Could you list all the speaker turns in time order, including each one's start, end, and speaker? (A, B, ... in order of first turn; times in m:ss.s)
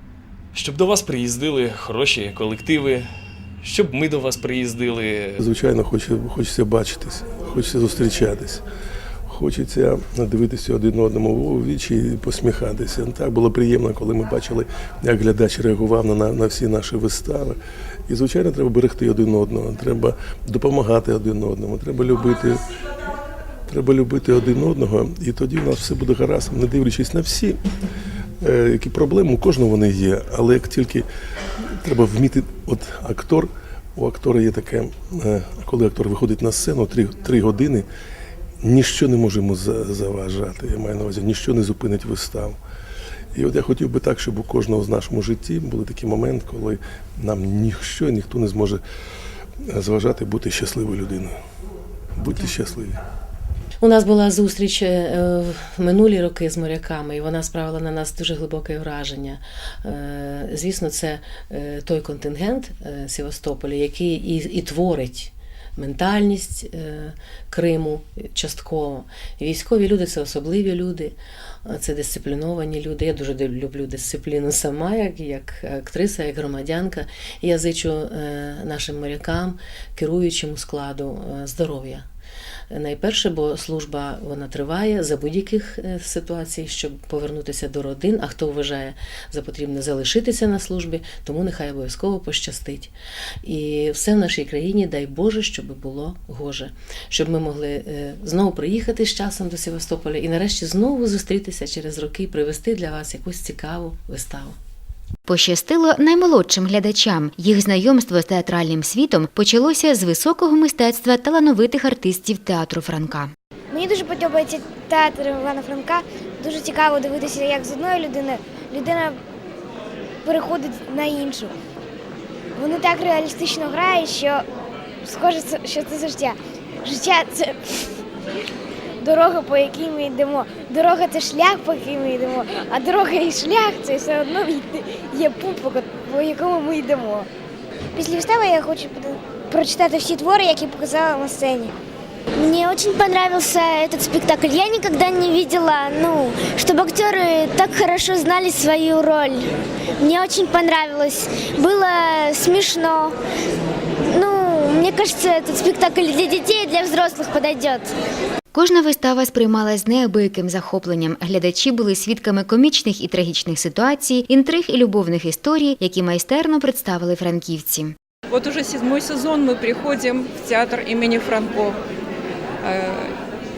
0:00.5-0:03.0 A
0:03.6-0:05.4 A
0:05.4-0:08.6 B
0:09.3-0:22.6 B
0:23.7-0:27.6 B
0:28.4-0:31.1 B
0:31.8-0:37.8 B
0:38.6-0:42.6 B
0:43.3-0:48.8 B
0:49.6-0:51.3 B
0:52.2-0:53.0 B
0:53.8-1:22.0 C
1:22.7-1:32.9 C
1:33.4-1:44.6 C
1:45.2-1:53.3 D
1:53.7-1:59.2 E
2:00.2-2:01.5 E
2:02.6-2:04.4 E
2:05.0-2:07.8 E
2:09.0-2:17.3 E
2:18.0-2:21.7 E
2:22.4-2:33.1 E
2:34.1-2:37.9 E
2:38.5-2:47.9 D
2:48.3-2:51.8 F
2:52.6-2:53.1 F